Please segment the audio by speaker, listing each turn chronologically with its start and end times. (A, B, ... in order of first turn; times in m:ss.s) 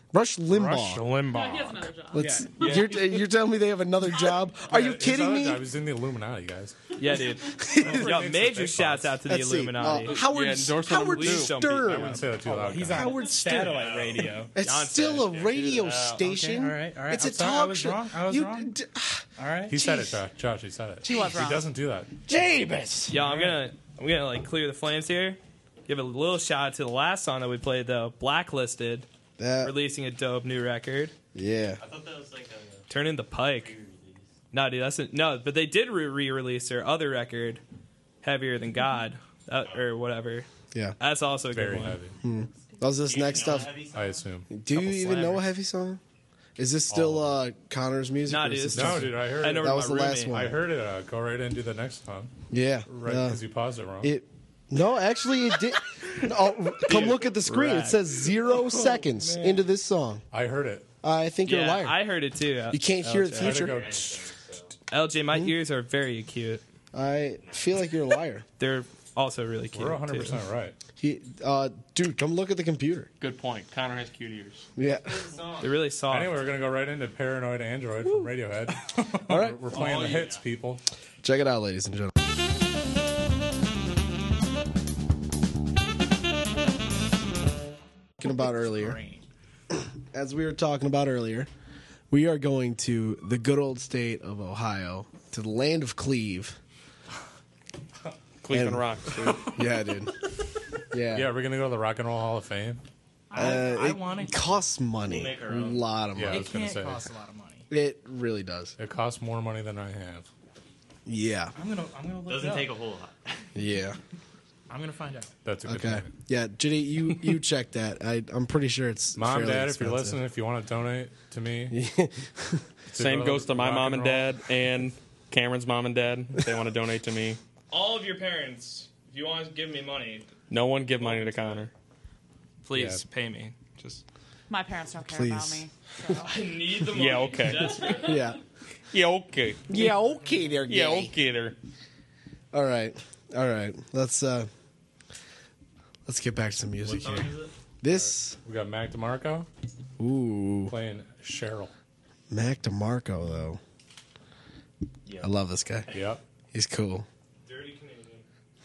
0:00.1-0:01.1 A
0:00.5-0:01.8 B
0:01.2-0:03.2 C
0:02.1-0:05.7 A
0:02.2-0:02.6 D
0:04.7-0:06.8 B
0:07.0-0:10.2 E
0:07.2-0:07.5 C
0:07.6-0:08.3 A
0:07.7-0:09.2 B
0:09.3-0:12.3 A
0:09.9-0:11.6 F
0:10.9-0:12.2 E
0:11.8-0:13.2 B
0:12.0-0:14.5 D
0:12.9-0:14.0 A
0:14.5-0:20.2 A
0:14.6-0:15.9 E
0:15.6-0:16.2 F
0:16.2-0:18.7 D
0:19.4-0:19.8 D
0:19.7-0:22.4 B
0:21.0-0:21.7 C
0:22.3-0:23.2 A
0:23.1-0:29.1 E
0:23.2-0:23.6 D
0:29.4-0:29.8 A
0:29.6-0:31.1 E
0:31.3-0:31.8 A
0:31.8-0:32.9 G
0:32.9-0:33.8 E
0:33.5-0:34.3 G
0:34.5-0:37.6 E
0:38.2-0:40.5 E
0:41.0-0:42.0 E
0:41.5-0:42.2 B
0:42.2-0:43.8 A
0:43.0-0:44.3 G
0:43.9-0:44.5 B
0:44.5-0:46.0 A
0:45.0-0:45.2 E
0:46.6-0:50.6 A
0:46.9-0:47.4 B
0:48.3-0:50.4 E
0:48.7-0:49.7 B
0:50.3-0:52.3 B
0:52.5-0:53.4 A
0:52.9-0:54.1 B
0:54.0-1:00.2 A
0:56.8-0:59.3 E
0:59.2-0:59.6 D
1:00.3-1:00.9 B
1:01.0-1:02.0 A
1:01.4-1:03.6 E
1:02.7-1:03.8 A
1:03.4-1:04.3 B
1:03.6-1:04.7 G
1:04.9-1:06.6 E
1:06.9-1:08.4 A
1:08.6-1:10.4 E
1:09.7-1:10.8 B
1:11.0-1:13.1 A
1:13.2-1:14.7 F
1:14.8-1:15.3 A
1:15.1-1:15.7 G
1:15.6-1:16.4 E
1:16.1-1:20.8 B
1:19.3-1:19.8 A
1:19.7-1:20.4 G
1:21.2-1:22.1 A
1:28.2-1:29.0 A
1:28.2-1:29.2 D
1:29.7-1:31.5 A
1:32.1-1:36.6 A
1:38.4-1:39.6 F
1:38.5-1:40.1 A
1:40.9-1:41.3 A
1:41.1-1:42.8 B
1:43.3-1:44.2 C
1:43.3-1:44.5 D
1:43.4-1:46.5 A
1:45.0-1:45.8 G
1:46.2-1:47.1 B
1:46.3-1:47.7 D
1:47.7-1:48.8 A
1:48.8-1:50.3 B
1:51.1-1:51.6 A
1:51.6-1:52.8 D
1:52.2-1:53.5 G
1:53.6-1:54.0 A
1:54.7-1:55.4 D
1:55.4-1:56.1 B
1:55.7-2:00.2 A
1:59.2-2:01.8 B
2:01.7-2:02.7 A
2:02.9-2:04.4 B
2:02.9-2:07.4 F
2:07.7-2:10.3 E
2:10.5-2:11.7 F
2:11.0-2:11.7 E
2:12.6-2:14.0 E
2:12.7-2:13.0 B
2:14.5-2:16.3 C
2:15.1-2:15.7 A
2:16.2-2:18.2 E
2:16.9-2:18.0 F
2:17.8-2:18.4 C
2:17.9-2:18.4 A
2:18.9-2:20.0 F
2:19.7-2:21.1 A
2:20.6-2:21.6 F
2:22.5-2:24.5 A
2:26.1-2:28.4 A
2:27.9-2:29.5 B
2:30.0-2:30.8 A
2:30.7-2:31.7 B
2:32.3-2:33.6 A
2:35.2-2:35.9 A
2:35.9-2:36.2 B
2:36.5-2:37.1 A
2:37.5-2:38.2 E